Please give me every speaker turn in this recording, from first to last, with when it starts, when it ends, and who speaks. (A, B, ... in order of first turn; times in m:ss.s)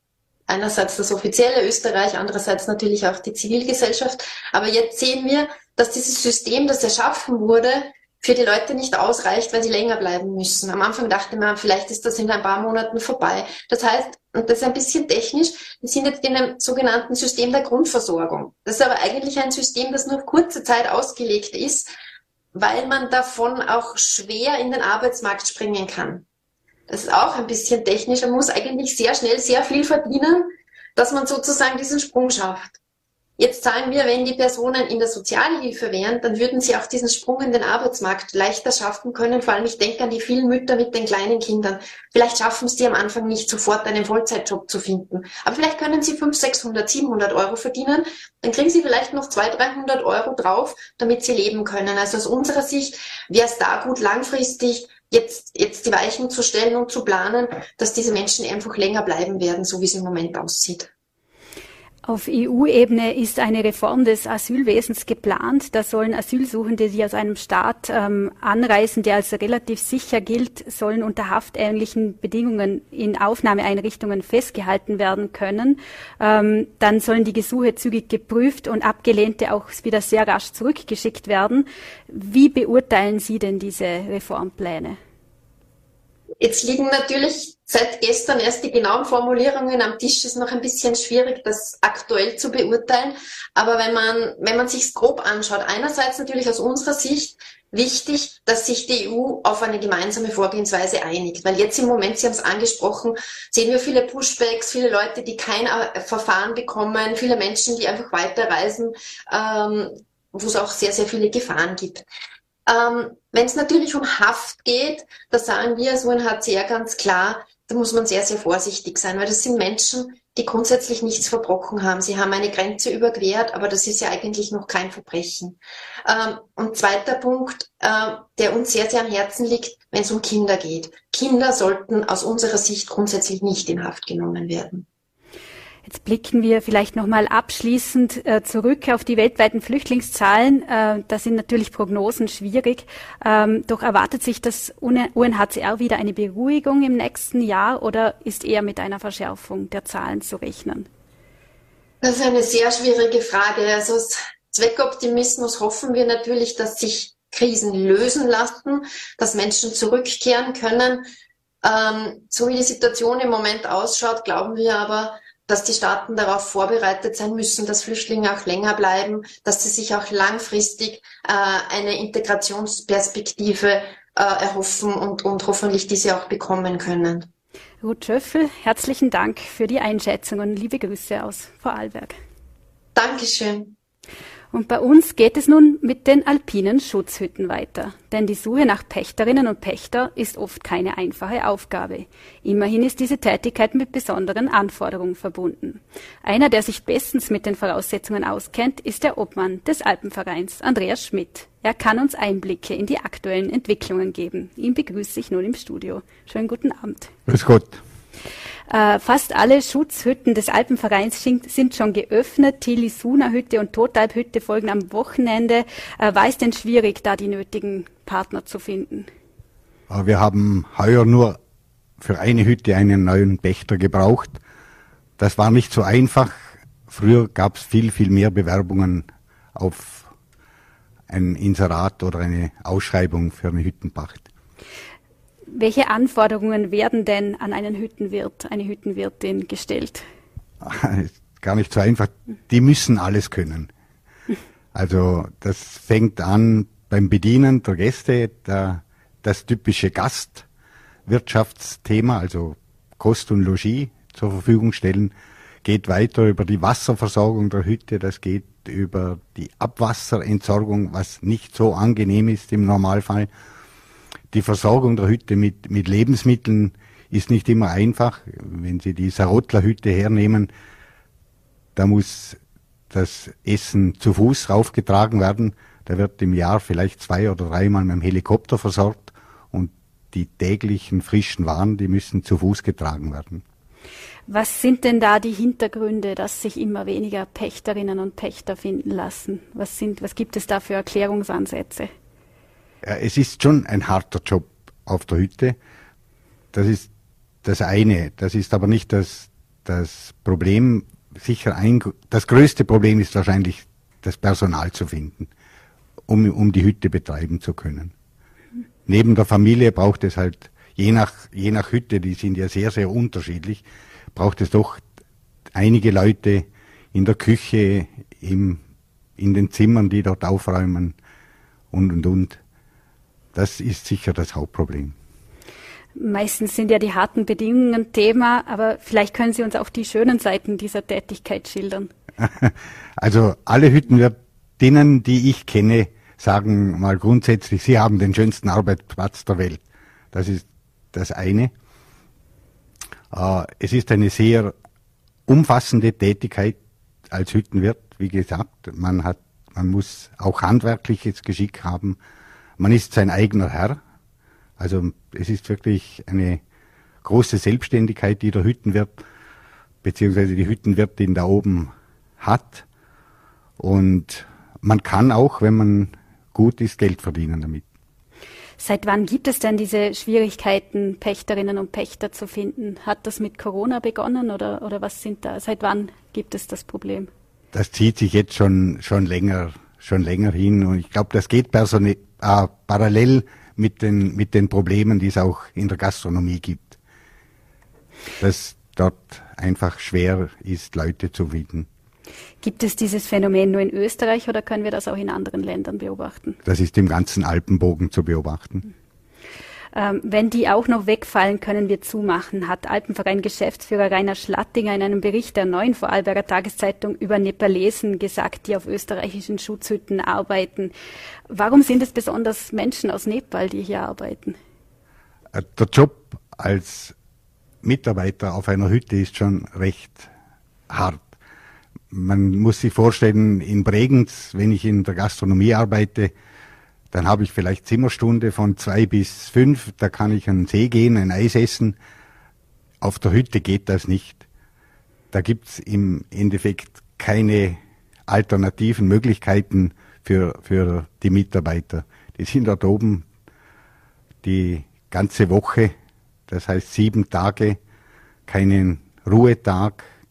0:00.5-0:21.9 A
0:22.5-0:26.2 A
0:26.9-0:32.8 A
0:33.4-1:00.9 A
1:02.1-1:25.0 B
1:26.4-1:52.0 A
1:52.6-2:14.8 A
2:15.8-2:30.9 B
2:32.0-2:41.0 A
2:41.6-2:57.3 A
2:57.8-3:02.2 B
3:02.9-3:03.7 A
3:04.5-3:27.1 B
3:27.3-3:27.8 C
3:28.7-3:39.1 B
3:39.9-3:41.4 C
3:42.0-3:44.4 C
3:45.2-3:50.1 C
3:51.1-3:54.3 C
3:55.5-4:00.0 B
4:00.6-4:03.7 C
4:04.7-4:10.4 C
4:11.1-4:23.3 C
4:24.3-4:30.5 C
4:31.8-4:32.4 C
4:32.9-4:43.4 C
4:44.3-4:51.9 B
4:52.8-4:55.6 C
4:56.5-4:56.9 C
4:57.4-5:05.3 C
5:06.1-5:07.9 C
5:08.9-5:13.6 C
5:14.1-5:14.8 C
5:15.5-5:18.6 C
5:19.2-5:21.0 C
5:21.7-5:22.4 C
5:23.4-5:24.9 C
5:26.0-5:31.9 B
5:32.2-5:41.5 C
5:43.1-5:44.5 C
5:45.3-5:46.6 C
5:47.1-5:52.0 C
5:52.6-5:53.8 C
5:54.6-5:56.4 C
5:57.0-5:59.0 C
5:59.8-6:02.6 C
6:03.6-6:07.6 C
6:08.6-6:17.1 B
6:17.5-6:26.8 C
6:28.2-6:31.7 C
6:32.4-6:36.4 B
6:36.4-6:38.7 C
6:39.7-6:50.7 B
6:51.3-6:54.4 B
6:55.3-6:56.9 C
6:57.6-7:00.1 C
7:00.7-7:01.1 C
7:01.9-7:06.1 C
7:06.9-7:11.8 C
7:12.8-7:14.2 C
7:15.1-7:23.1 C
7:24.2-7:25.7 C
7:26.3-7:27.6 C
7:28.3-7:29.9 C